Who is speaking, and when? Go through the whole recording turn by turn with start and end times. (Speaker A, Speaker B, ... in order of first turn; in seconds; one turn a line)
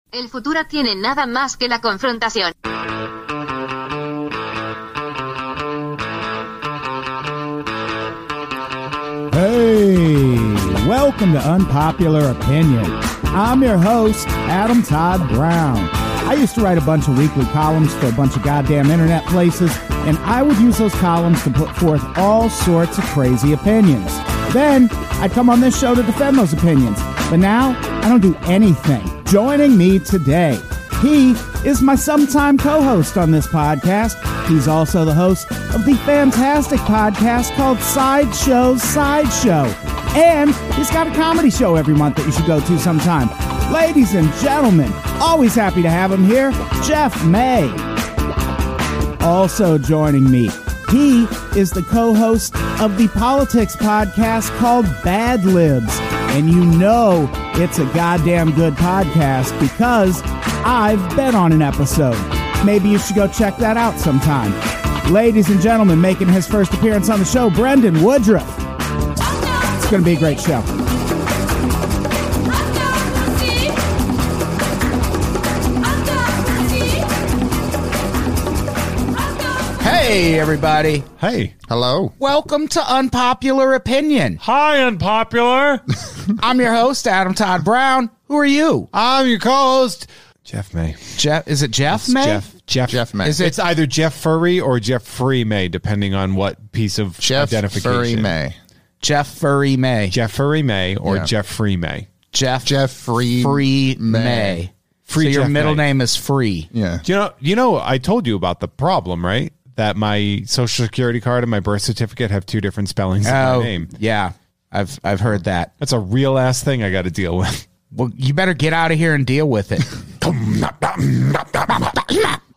Speaker A: 0.1-2.5
Speaker B: 9.3-47.9
Speaker B: 49.2-68.7
Speaker B: 69.6-70.7
Speaker B: 79.8-81.1
Speaker C: 81.2-81.5
Speaker D: 81.7-82.1
Speaker B: 82.2-84.4
Speaker C: 84.4-85.9
Speaker B: 86.4-88.9
Speaker C: 88.9-91.2
Speaker B: 91.2-92.5
Speaker C: 91.9-98.3
Speaker D: 92.9-93.4
Speaker B: 93.2-93.6
Speaker D: 97.2-98.6
Speaker B: 99.0-100.1
Speaker C: 100.1-102.1
Speaker D: 101.0-101.3
Speaker B: 102.3-102.7
Speaker D: 102.6-104.6
Speaker B: 103.3-106.7
Speaker C: 105.1-105.8
Speaker D: 106.7-107.0
Speaker C: 107.0-113.9
Speaker B: 113.2-115.7
Speaker C: 115.8-117.6
Speaker B: 117.9-119.9
Speaker C: 120.2-122.3